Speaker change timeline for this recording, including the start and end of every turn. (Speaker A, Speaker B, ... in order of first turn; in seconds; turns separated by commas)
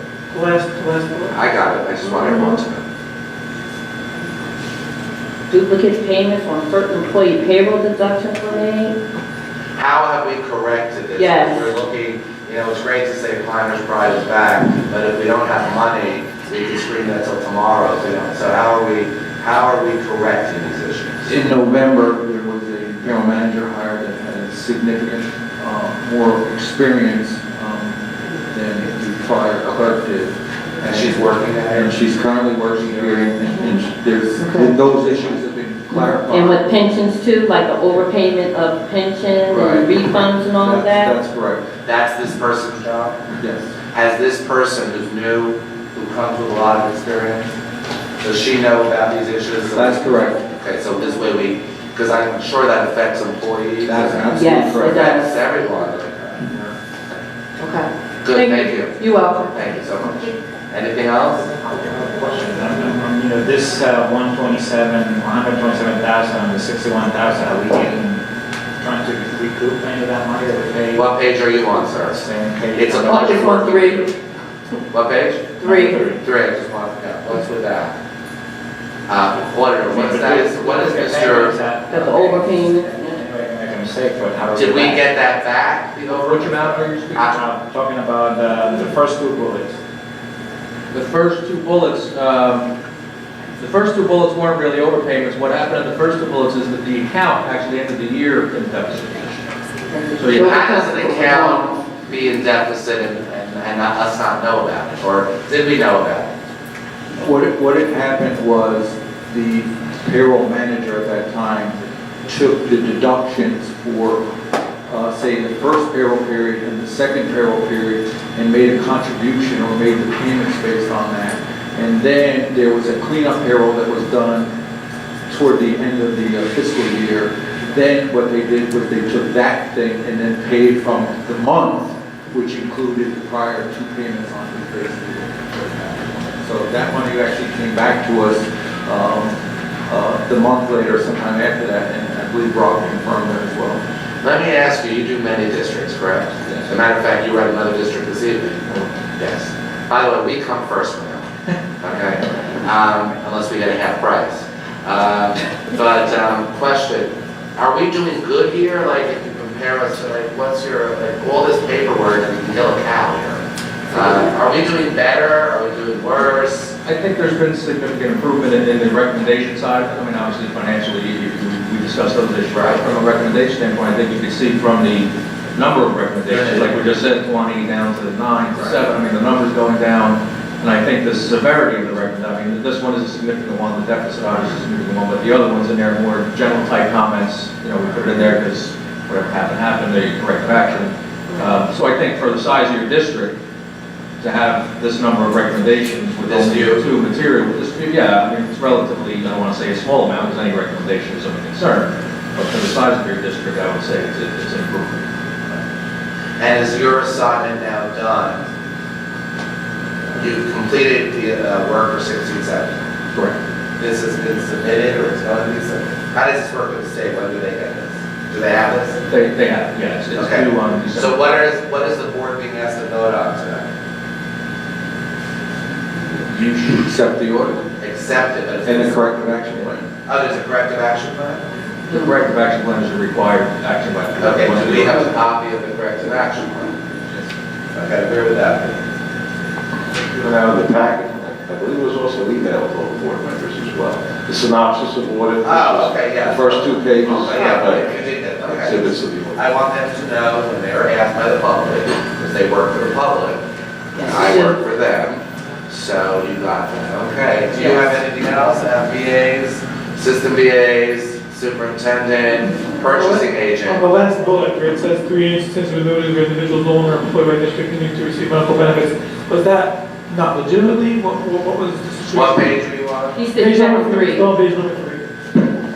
Speaker A: 0.3-1.9, Speaker B: 1.3-2.8, Speaker C: 2.0-2.6, Speaker C: 5.5-8.9, Speaker B: 9.8-21.4, Speaker C: 11.1-11.7, Speaker D: 21.2-31.1, Speaker B: 30.8-31.9, Speaker D: 31.7-36.8, Speaker C: 33.5-33.7, Speaker C: 34.4-34.7, Speaker C: 35.9-41.1, Speaker D: 39.5-39.9, Speaker D: 40.5-41.6, Speaker B: 41.8-43.2, Speaker D: 43.4-43.6, Speaker B: 43.9-47.5, Speaker B: 48.2-56.7, Speaker D: 49.7-50.4, Speaker D: 53.8-55.1, Speaker C: 54.3-55.4, Speaker C: 57.6-59.7, Speaker B: 58.2-61.5, Speaker E: 61.7-68.2, Speaker E: 68.8-71.1, Speaker B: 70.9-74.1, Speaker E: 72.0-73.7, Speaker C: 73.1-74.1, Speaker B: 74.9-77.9, Speaker C: 75.6-76.1, Speaker E: 75.6-76.2, Speaker B: 79.1-81.6, Speaker E: 79.9-85.1, Speaker C: 81.9-83.2, Speaker B: 84.5-87.4, Speaker F: 86.2-87.3, Speaker E: 87.3-89.7, Speaker F: 90.9-92.7, Speaker F: 93.6-99.4, Speaker C: 99.9-102.0, Speaker F: 100.2-100.5, Speaker B: 100.4-106.3, Speaker D: 107.2-114.3, Speaker D: 114.9-124.5, Speaker D: 125.3-143.8, Speaker B: 144.2-148.7, Speaker B: 149.2-151.2, Speaker B: 151.8-166.7, Speaker F: 166.8-193.3, Speaker B: 172.5-172.8, Speaker B: 176.3-176.7, Speaker B: 178.5-178.8, Speaker C: 191.3-191.6, Speaker F: 194.2-205.1, Speaker B: 196.2-196.8, Speaker B: 206.4-208.4, Speaker B: 210.1-212.8, Speaker B: 213.8-219.0, Speaker F: 219.1-221.2, Speaker B: 220.1-223.6, Speaker D: 226.3-227.6, Speaker B: 227.8-229.4, Speaker D: 228.6-229.9, Speaker B: 230.1-231.4, Speaker F: 231.9-235.0, Speaker B: 234.2-236.7, Speaker B: 237.7-238.8, Speaker G: 240.2-249.4, Speaker B: 245.4-253.4, Speaker C: 253.9-254.6, Speaker B: 254.0-263.8, Speaker A: 262.8-272.5, Speaker B: 272.1-273.2, Speaker C: 273.1-274.3, Speaker A: 273.3-275.1